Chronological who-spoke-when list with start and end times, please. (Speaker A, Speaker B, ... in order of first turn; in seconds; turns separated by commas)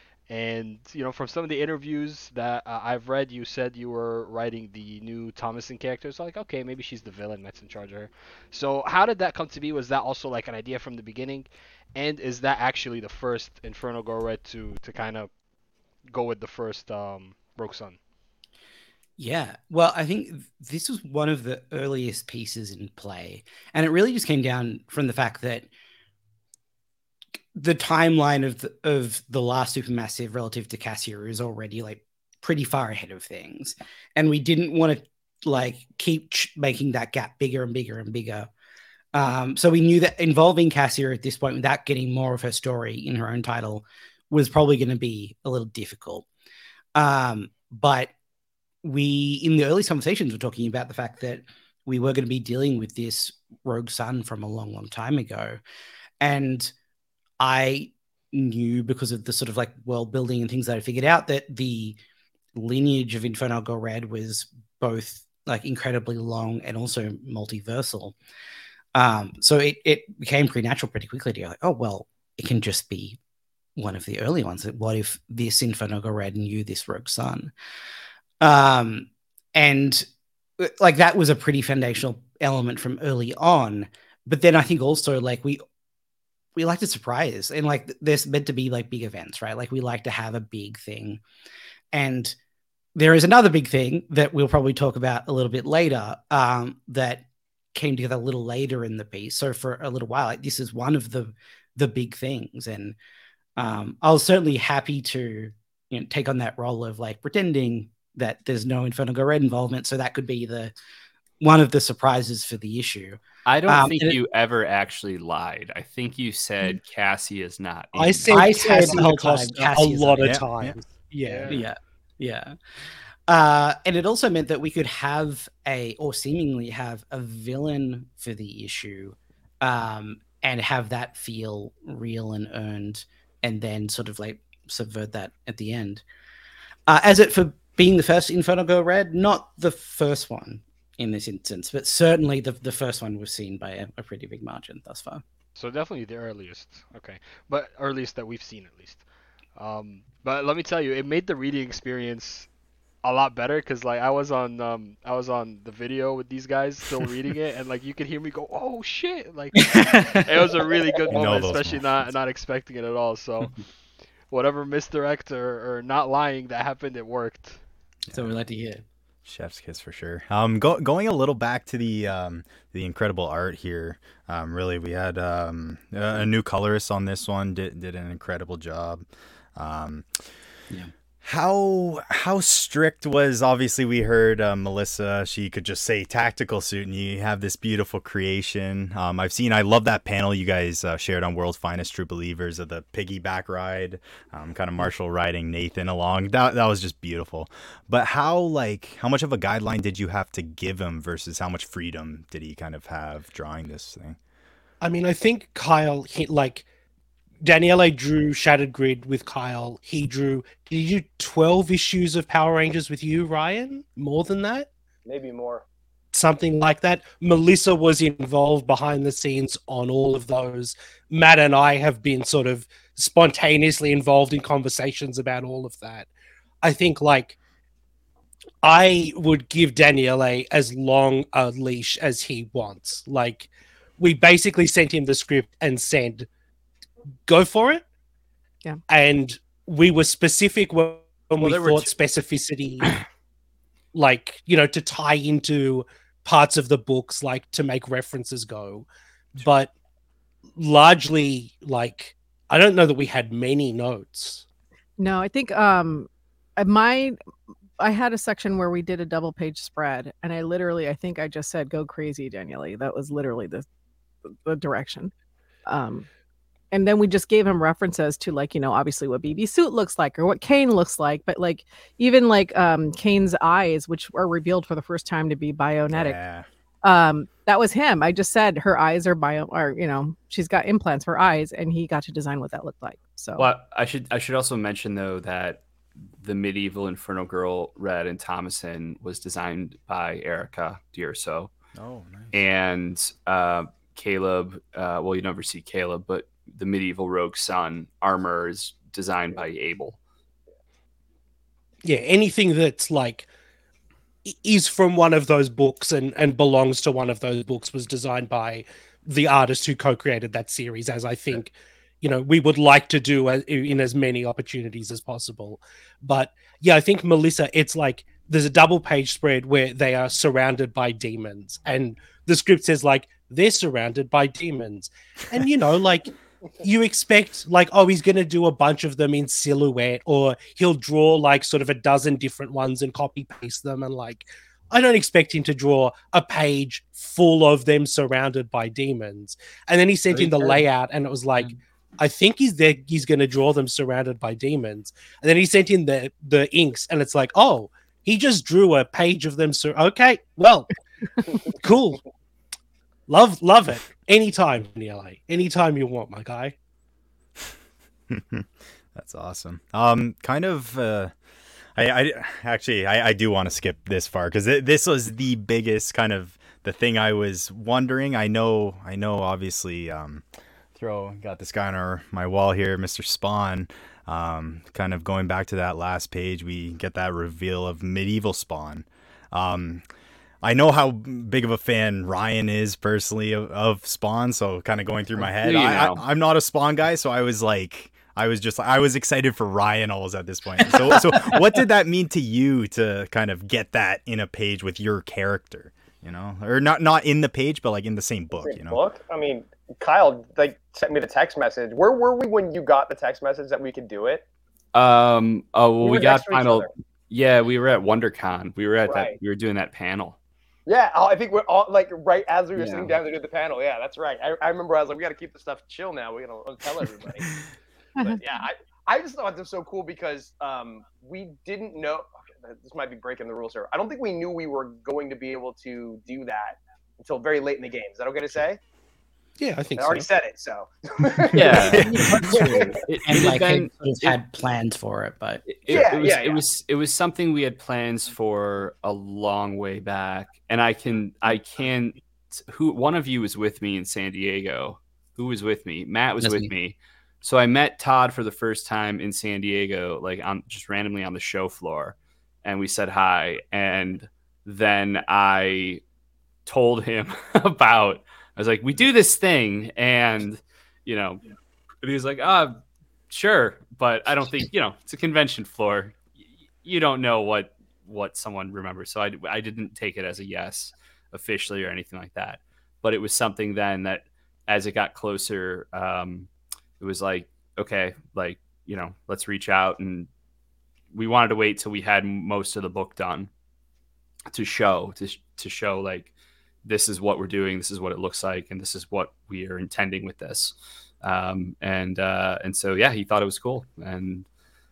Speaker A: 0.3-15.3, Speaker A: 16.1-18.0, Speaker B: 19.2-25.7, Speaker B: 27.5-38.5, Speaker B: 39.1-46.3, Speaker B: 47.0-48.1, Speaker B: 48.8-55.6, Speaker B: 56.2-56.7, Speaker B: 57.4-62.0, Speaker B: 62.5-68.1, Speaker B: 68.9-73.2, Speaker B: 73.8-77.5, Speaker B: 78.4-80.0, Speaker B: 80.6-85.6, Speaker B: 86.5-91.2, Speaker B: 91.9-92.3, Speaker B: 93.0-103.0, Speaker B: 103.6-110.7, Speaker B: 111.4-114.2, Speaker C: 113.5-119.0, Speaker D: 117.9-121.6, Speaker B: 118.3-120.5, Speaker E: 120.2-120.8, Speaker A: 121.2-121.7, Speaker B: 121.5-122.5, Speaker B: 123.3-136.0, Speaker B: 136.9-145.2, Speaker A: 145.6-149.0, Speaker A: 149.5-152.5, Speaker A: 153.0-159.6, Speaker B: 159.5-161.1, Speaker A: 160.2-163.6, Speaker E: 161.1-162.1, Speaker A: 164.3-167.6, Speaker E: 168.1-168.3, Speaker B: 168.1-168.8, Speaker E: 169.2-180.2, Speaker E: 181.2-204.2, Speaker D: 204.8-206.7, Speaker D: 207.4-214.7, Speaker F: 215.1-215.6, Speaker D: 216.1-226.1, Speaker D: 226.6-227.4, Speaker D: 228.6-236.3, Speaker D: 237.2-237.8, Speaker D: 238.9-242.9, Speaker C: 241.4-241.9, Speaker D: 243.9-249.7, Speaker D: 250.6-254.4, Speaker G: 255.0-257.1, Speaker G: 257.8-263.6, Speaker G: 264.3-265.1, Speaker G: 265.6-266.1, Speaker G: 266.7-276.2, Speaker E: 275.9-276.4, Speaker G: 276.8-283.5, Speaker C: 283.4-285.6, Speaker C: 286.2-291.5, Speaker E: 291.7-292.3, Speaker C: 292.3-300.0, Speaker D: 301.8-303.3, Speaker D: 304.2-350.7, Speaker B: 340.1-340.6, Speaker D: 351.4-352.0, Speaker D: 353.1-356.5, Speaker E: 358.1-361.1, Speaker E: 361.7-370.2, Speaker E: 370.7-379.8, Speaker E: 380.4-398.8, Speaker C: 385.4-386.0, Speaker B: 390.7-391.4, Speaker F: 398.4-404.2, Speaker C: 404.7-410.2, Speaker F: 405.8-406.7, Speaker F: 408.9-409.2, Speaker F: 410.7-417.3, Speaker C: 412.6-412.9, Speaker F: 418.0-428.6, Speaker D: 429.4-430.1, Speaker F: 429.8-432.8, Speaker C: 431.3-434.2, Speaker E: 431.6-432.7, Speaker B: 433.0-435.6, Speaker C: 435.5-455.8, Speaker F: 435.7-436.4, Speaker B: 446.2-446.5, Speaker C: 456.4-461.2, Speaker C: 461.8-466.1, Speaker C: 466.6-480.1, Speaker C: 480.9-483.3, Speaker C: 484.3-486.1, Speaker C: 486.6-494.2